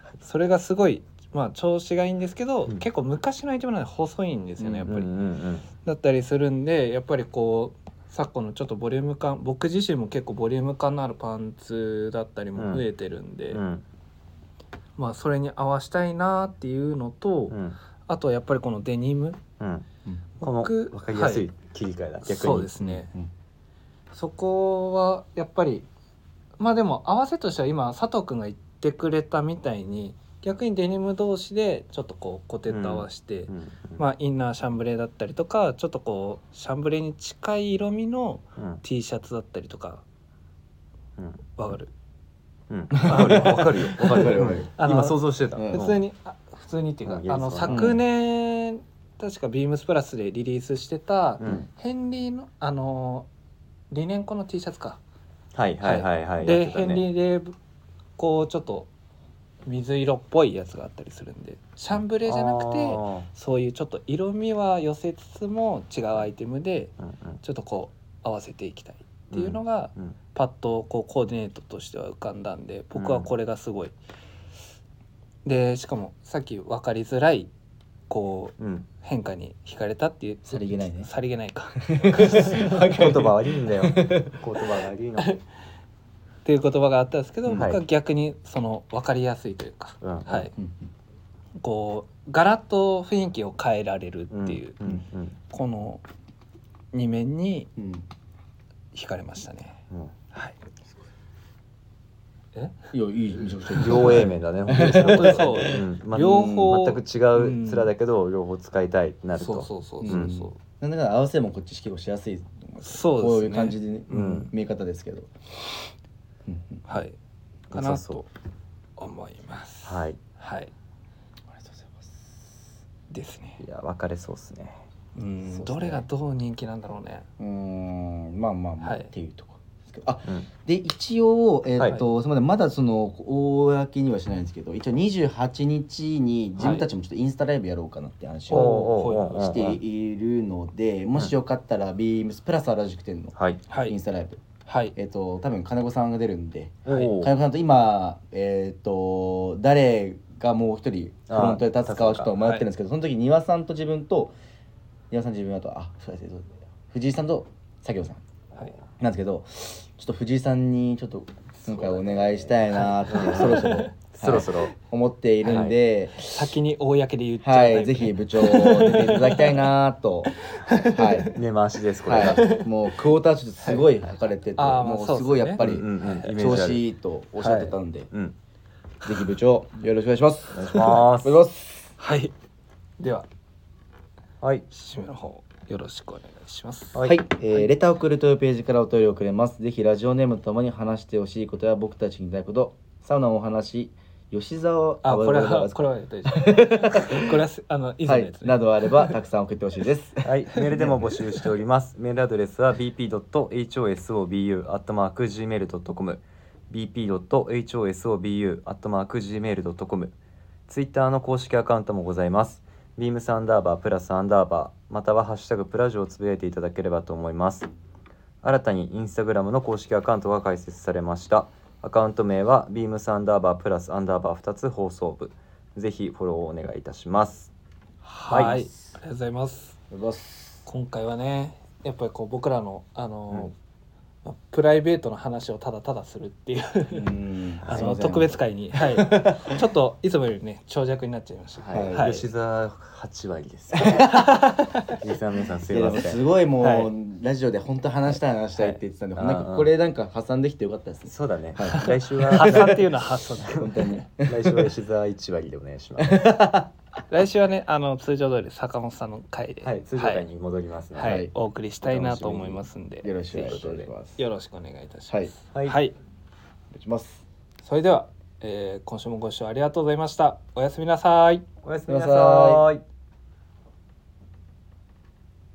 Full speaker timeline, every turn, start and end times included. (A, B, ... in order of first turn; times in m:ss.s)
0:00.2-0:05.1 A
0:04.6-0:04.8 B
0:04.8-0:05.7 C
0:05.8-0:13.6 A
0:12.6-0:12.9 C
0:13.5-0:13.8 C
0:15.0-0:17.6 A
0:17.5-0:17.8 C
0:18.1-0:19.4 A
0:19.6-0:19.8 C
0:20.4-0:21.5 A
0:20.4-0:22.8 C
0:22.2-0:23.1 A
0:22.8-0:23.3 B
0:24.1-0:25.9 A
0:26.6-0:40.0 A
0:32.7-0:34.0 C
0:38.6-0:38.8 C
0:41.6-0:41.9 A
0:42.7-0:46.0 C
0:43.0-0:44.7 B
0:43.0-0:53.3 A
0:45.5-0:45.8 B
0:47.0-0:48.0 C
0:47.6-0:48.0 B
0:51.4-0:51.6 C
0:53.9-0:55.0 A
0:55.5-0:57.0 C
0:55.8-0:57.6 A
0:58.2-0:58.9 A
0:59.6-1:14.0 A
1:02.2-1:03.3 C
1:07.0-1:07.4 C
1:09.3-1:10.2 C
1:12.9-1:13.3 C
1:15.4-1:17.5 A
1:18.1-1:23.1 A
1:18.6-1:18.9 C
1:20.4-1:21.1 B
1:21.9-1:24.4 B
1:22.2-1:25.4 C
1:26.4-1:30.5 A
1:27.5-1:27.8 C
1:30.0-1:30.5 C
1:30.6-1:30.9 B
1:31.6-1:34.8 A
1:34.3-1:35.4 C
1:35.5-1:36.0 A
1:36.9-1:37.7 A
1:37.8-1:38.0 B
1:38.9-1:39.8 A
1:42.9-1:45.8 B
1:43.7-1:50.4 C
1:43.8-1:44.2 A
1:44.8-1:47.9 A
1:49.4-1:50.6 A
1:50.0-1:55.3 B
1:52.8-1:54.5 A
1:54.1-1:54.5 C
1:56.4-1:56.8 B
1:56.9-1:57.2 A
1:57.7-1:58.2 C
1:57.7-1:58.3 A
1:59.0-2:00.7 A
1:59.8-2:00.2 C
2:01.5-2:02.6 B
2:03.1-2:03.6 A
2:03.6-2:04.8 C
2:05.2-2:07.3 A
2:05.5-2:06.0 B
2:07.4-2:23.3 B
2:08.8-2:09.1 A
2:11.8-2:12.0 C
2:16.6-2:16.8 C
2:18.5-2:19.4 A
2:18.5-2:19.8 C
2:23.4-2:23.6 C
2:23.7-2:24.0 A
2:23.9-2:24.4 B
2:24.6-2:24.9 A
2:24.9-2:34.3 B
2:26.8-2:27.3 C
2:26.9-2:27.1 A
2:31.3-2:32.3 C
2:32.4-2:32.7 A
2:35.1-2:38.2 B
2:39.0-2:46.6 B
2:41.9-2:42.5 C
2:42.7-2:43.9 A
2:43.0-2:44.8 C
2:45.4-2:49.6 A
2:45.4-2:45.8 C
2:47.4-2:51.4 B
2:50.5-2:51.4 A
2:51.3-2:52.5 C
2:52.0-2:58.1 B
2:52.2-2:52.7 A
2:54.5-2:56.7 A
2:55.6-2:56.8 C
2:57.4-2:57.7 A
2:58.1-2:58.4 C
2:59.0-3:01.9 B
3:00.5-3:01.4 C
3:02.0-3:02.3 A
3:03.0-3:03.3 A
3:04.4-3:04.7 C
3:04.7-3:07.0 A
3:07.0-3:17.4 B
3:15.0-3:19.1 A
3:18.0-3:21.2 B
3:20.2-3:30.1 C
3:20.7-3:21.2 A
3:30.7-3:37.7 C
3:38.4-3:47.5 C
3:48.0-3:48.6 C
3:48.2-3:49.8 A
3:48.3-3:48.7 B
3:49.9-3:50.6 B
3:50.6-3:53.5 A
3:54.2-3:57.1 A
3:56.9-3:59.5 B
3:57.6-3:57.9 C
3:57.6-4:02.3 A
4:01.6-4:04.1 C
4:01.7-4:02.2 B
4:03.8-4:04.2 B
4:03.8-4:05.0 A
4:04.9-4:06.2 C
4:05.7-4:12.8 B
4:06.6-4:06.9 A
4:09.2-4:09.7 C
4:11.1-4:12.8 C
4:11.8-4:14.0 A
4:13.4-4:14.7 B
4:14.2-4:16.4 C
4:16.0-4:16.7 B
4:17.1-4:20.2 A
4:19.6-4:21.3 C
4:20.9-4:23.6 A
4:21.0-4:21.3 B
4:21.8-4:22.6 C
4:23.0-4:24.2 B
4:23.4-4:23.9 C
4:24.2-4:26.0 A
4:25.5-4:25.8 C
4:26.7-4:27.2 B
4:27.6-4:31.4 A
4:31.6-4:32.8 C
4:31.9-4:32.6 B